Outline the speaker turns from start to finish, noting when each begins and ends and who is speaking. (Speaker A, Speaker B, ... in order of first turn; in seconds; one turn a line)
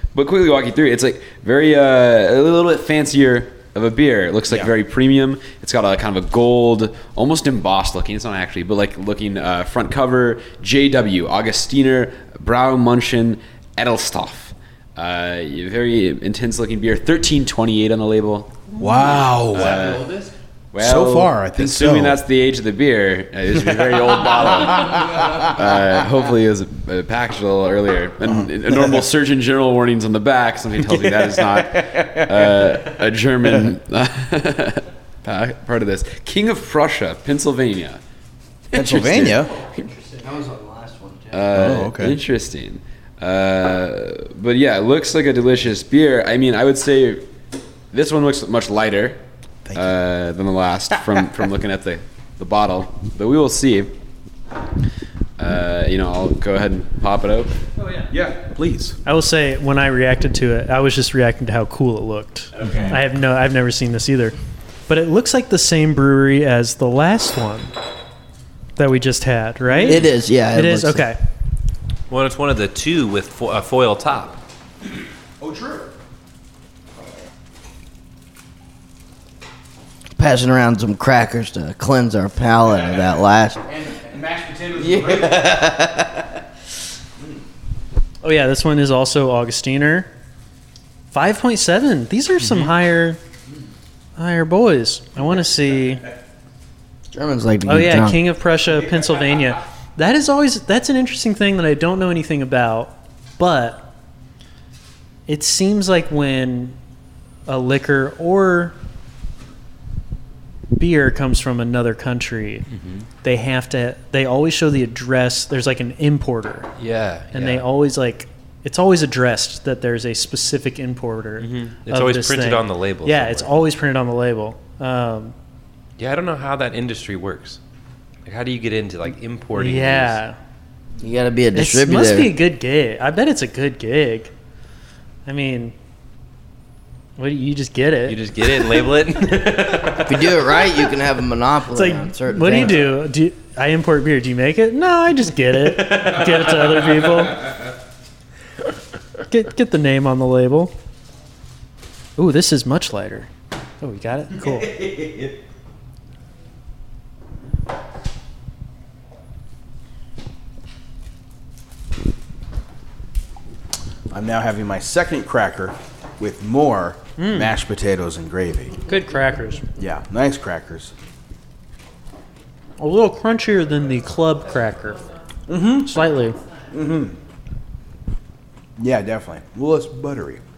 Speaker A: 0.1-18.6
Speaker B: 18.8-19.8
Speaker C: 18.9-20.3
Speaker A: 19.5-20.1
Speaker A: 20.7-38.0
Speaker B: 20.8-22.2
Speaker B: 23.6-25.5
Speaker B: 28.2-29.0
Speaker B: 30.8-32.9
Speaker A: 38.7-39.8
Speaker B: 38.7-39.5
Speaker D: 40.1-41.4
Speaker A: 41.3-47.2
Speaker B: 41.5-42.2
Speaker A: 47.9-49.2
Speaker B: 49.6-50.0
Speaker A: 49.7-53.9
Speaker B: 51.0-51.3
Speaker A: 55.4-57.5
Speaker B: 58.1-59.0
Speaker E: 59.0-64.3
Speaker A: 62.5-63.0
Speaker E: 64.9-67.7
Speaker E: 68.8-71.2
Speaker D: 69.8-71.1
Speaker C: 72.1-74.4
Speaker B: 75.4-75.9
Speaker D: 80.2-83.6
Speaker B: 82.8-83.1
Speaker B: 83.7-85.7
Speaker D: 84.8-86.3
Speaker E: 88.2-90.1
Speaker E: 91.1-93.2
Speaker E: 94.2-96.0
Speaker D: 97.1-98.2
Speaker E: 97.7-103.9
Speaker E: 105.3-106.8
Speaker E: 107.5-108.8
Speaker E: 110.8-112.7
Speaker C: 112.7-113.0
Speaker E: 113.2-116.7
Speaker C: 116.8-117.7
Speaker E: 117.3-125.3
Speaker C: 121.4-123.5
Speaker C: 126.0-127.6
Speaker C: 128.2-130.2
Speaker E: 129.5-130.4
Speaker D: 131.0-132.3
Speaker E: 131.5-134.3
Speaker E: 135.2-135.7
Speaker E: 137.2-140.0
Speaker C: 138.1-140.4
Speaker D: 140.0-142.8
Speaker E: 141.7-147.5
Speaker E: 149.3-150.7
Speaker E: 152.2-154.7
Speaker B: 154.8-155.3
Speaker B: 164.1-168.8
Speaker E: 167.2-167.5
Speaker E: 168.8-169.6
Speaker B: 169.8-170.9
Speaker E: 172.8-175.0
Speaker B: 175.5-176.0
Speaker E: 175.8-176.4
Speaker B: 176.7-177.2
Speaker B: 178.8-180.4